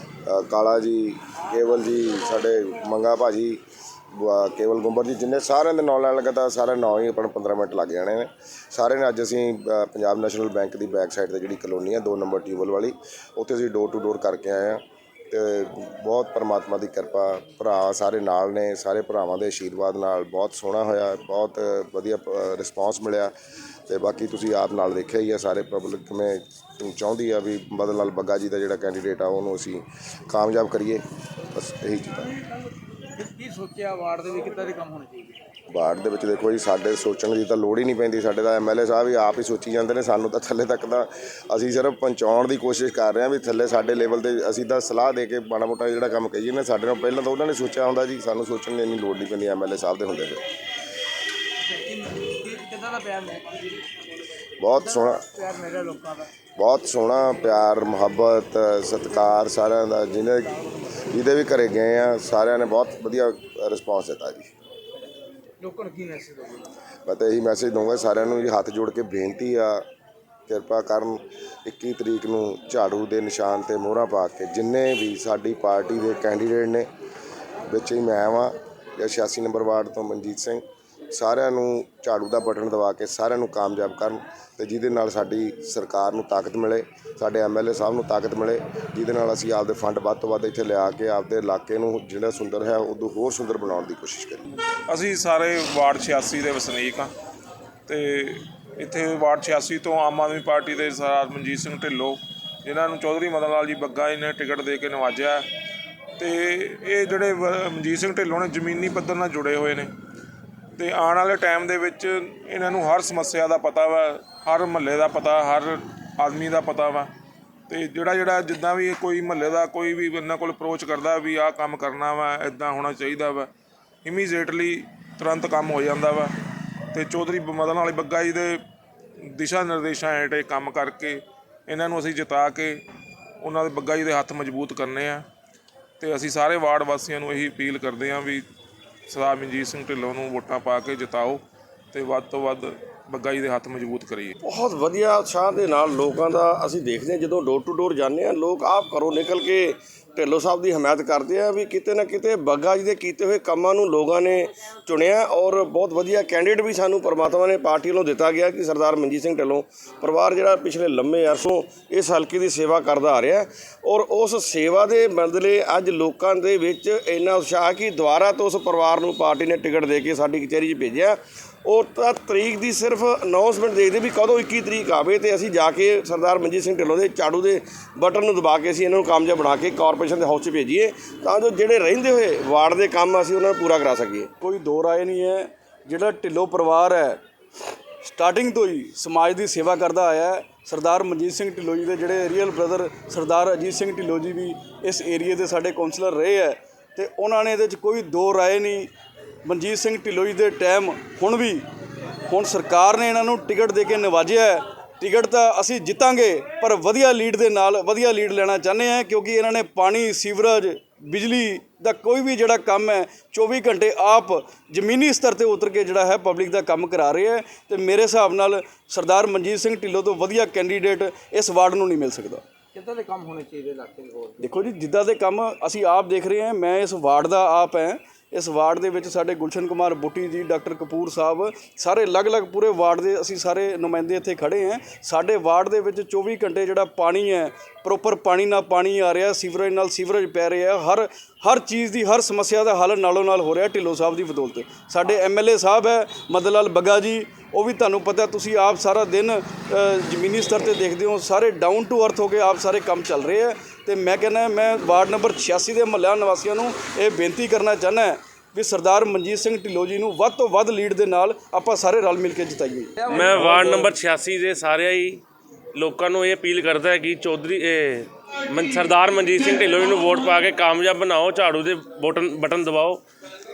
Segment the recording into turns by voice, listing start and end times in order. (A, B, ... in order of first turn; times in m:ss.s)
0:00.3-0:03.6 A
0:04.1-0:23.3 A
0:23.9-0:32.3 A
0:33.2-0:35.4 B
0:35.7-0:50.4 A
0:51.6-0:53.7 B
0:54.6-0:55.3 A
0:54.9-0:56.3 B
0:56.6-1:04.5 A
1:05.6-1:06.7 B
1:07.0-1:09.8 A
1:10.5-1:16.9 A
1:17.7-1:34.4 A
1:34.9-1:37.1 C
1:37.9-1:45.4 C
1:46.2-1:49.9 C
1:50.8-1:57.1 C
1:57.7-2:03.5 C
2:04.0-2:06.3 C
2:06.9-2:08.6 C
2:09.4-2:12.8 C
2:13.4-2:15.2 C
2:16.0-2:18.4 C
2:19.1-2:21.4 C
2:21.9-2:24.3 C
2:24.4-3:04.3 D
3:04.4-3:07.2 E
3:08.0-3:18.9 E
3:19.4-3:21.6 E
3:22.3-3:42.4 E
3:42.7-3:44.4 B
3:44.4-4:23.0 E
4:23.0-4:23.9 B
4:23.1-4:25.2 F
4:25.7-4:33.0 F